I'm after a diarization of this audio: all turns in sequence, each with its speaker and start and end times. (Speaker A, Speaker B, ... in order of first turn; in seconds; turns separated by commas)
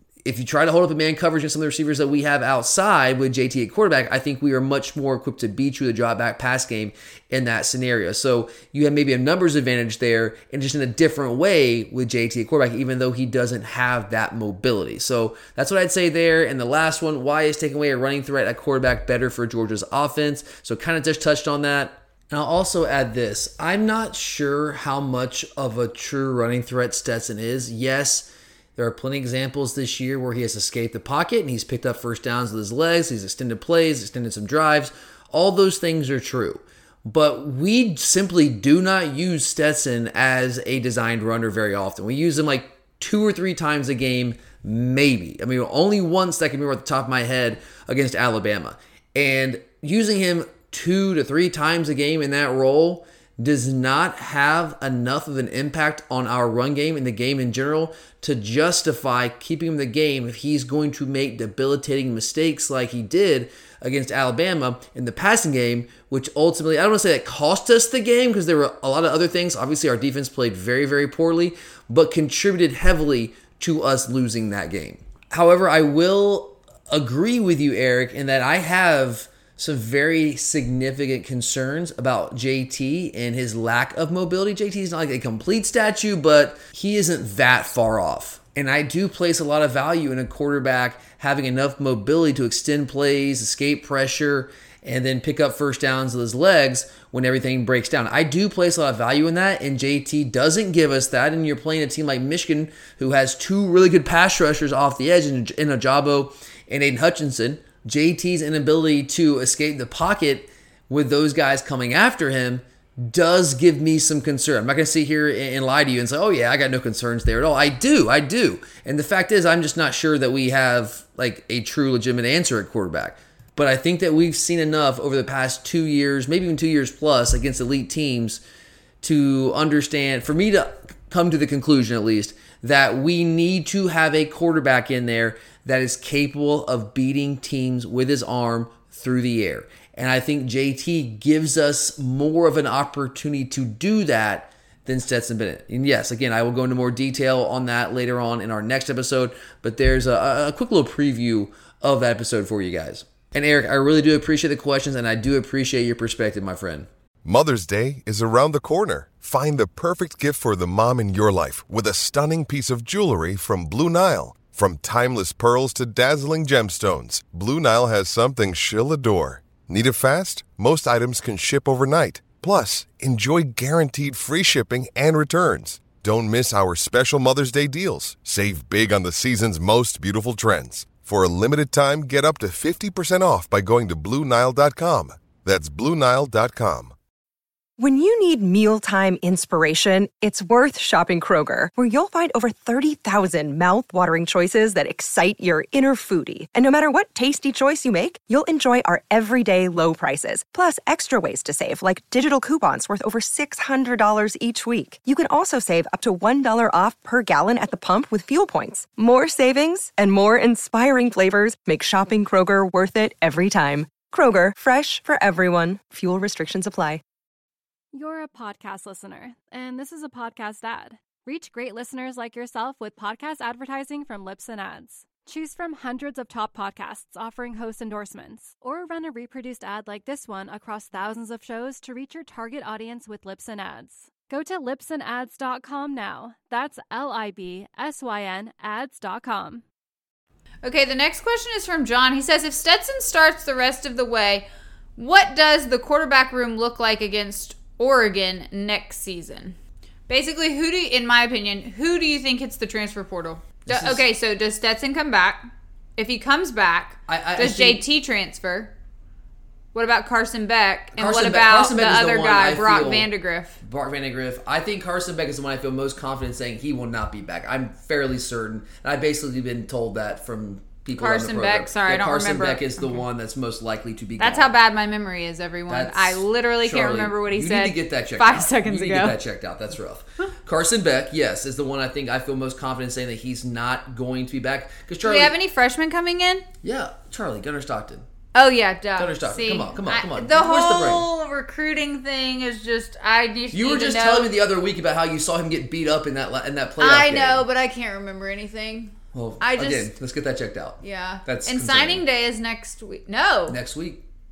Speaker A: 0.2-128.4, Speaker A: 129.0-156.9, Speaker B: 157.2-186.9, Speaker C: 187.8-217.0, Speaker D: 217.9-239.6, Speaker E: 240.6-244.5, Speaker E: 245.0-249.6, Speaker E: 250.1-258.7, Speaker A: 253.7-254.0, Speaker A: 257.1-257.8, Speaker E: 259.7-263.6, Speaker A: 260.9-263.1, Speaker A: 263.6-274.6, Speaker E: 270.9-273.1, Speaker E: 274.2-279.2, Speaker A: 275.7-285.4, Speaker E: 285.0-286.5, Speaker A: 286.6-288.1, Speaker E: 288.3-294.3, Speaker A: 289.0-291.1, Speaker A: 293.5-297.4, Speaker E: 296.8-299.9, Speaker A: 299.1-302.0, Speaker E: 300.8-303.6, Speaker A: 303.5-304.0